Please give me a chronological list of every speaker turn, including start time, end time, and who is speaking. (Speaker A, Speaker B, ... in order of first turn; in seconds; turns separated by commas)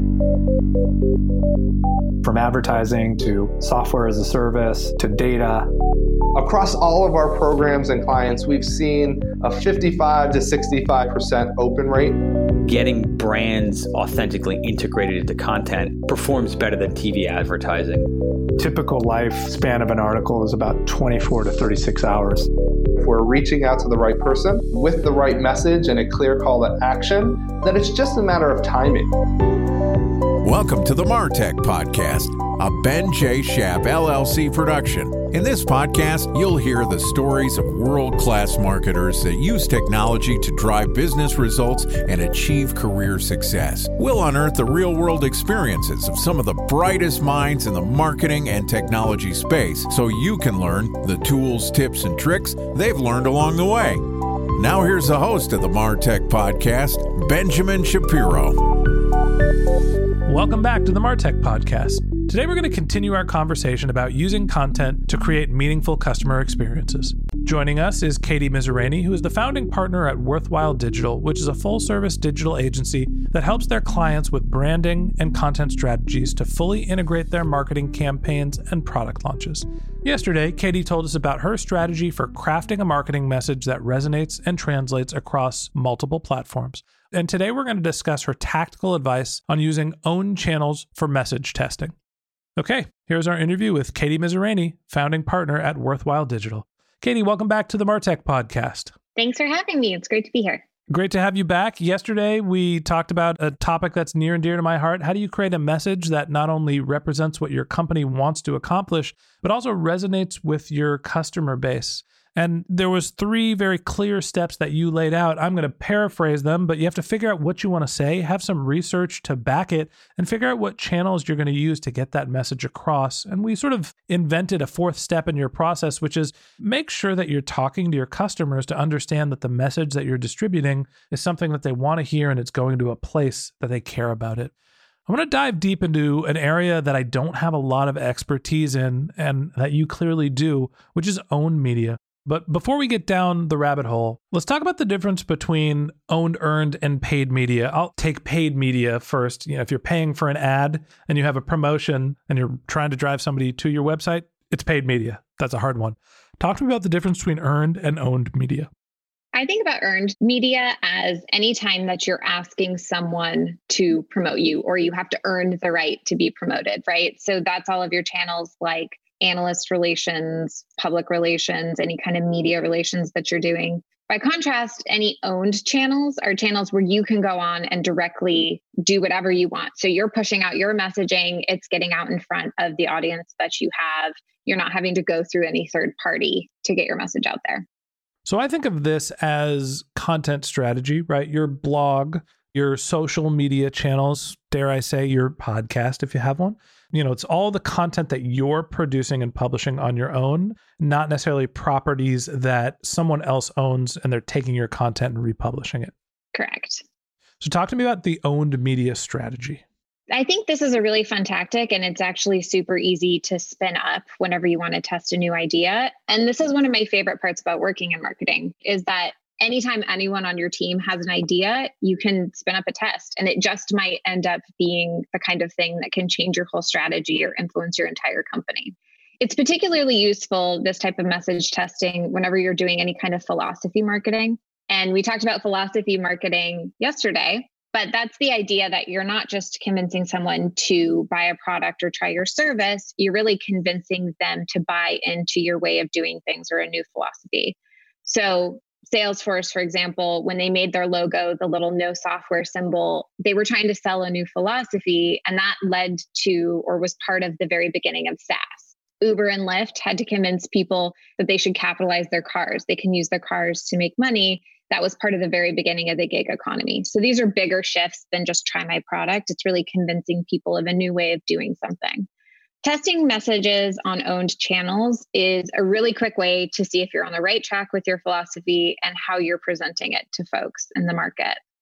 Speaker A: 2.5-5.5, Speaker B: 6.3-12.2, Speaker C: 12.7-18.1, Speaker D: 18.6-22.5, Speaker B: 23.0-29.1, Speaker E: 30.4-58.6, Speaker D: 60.2-91.9, Speaker D: 92.6-98.9, Speaker F: 99.2-100.6, Speaker D: 100.9-134.5, Speaker D: 135.1-158.7, Speaker F: 159.3-187.7, Speaker D: 188.3-205.9, Speaker F: 206.3-206.8, Speaker D: 207.4-209.6, Speaker F: 210.1-272.1, Speaker F: 272.6-281.4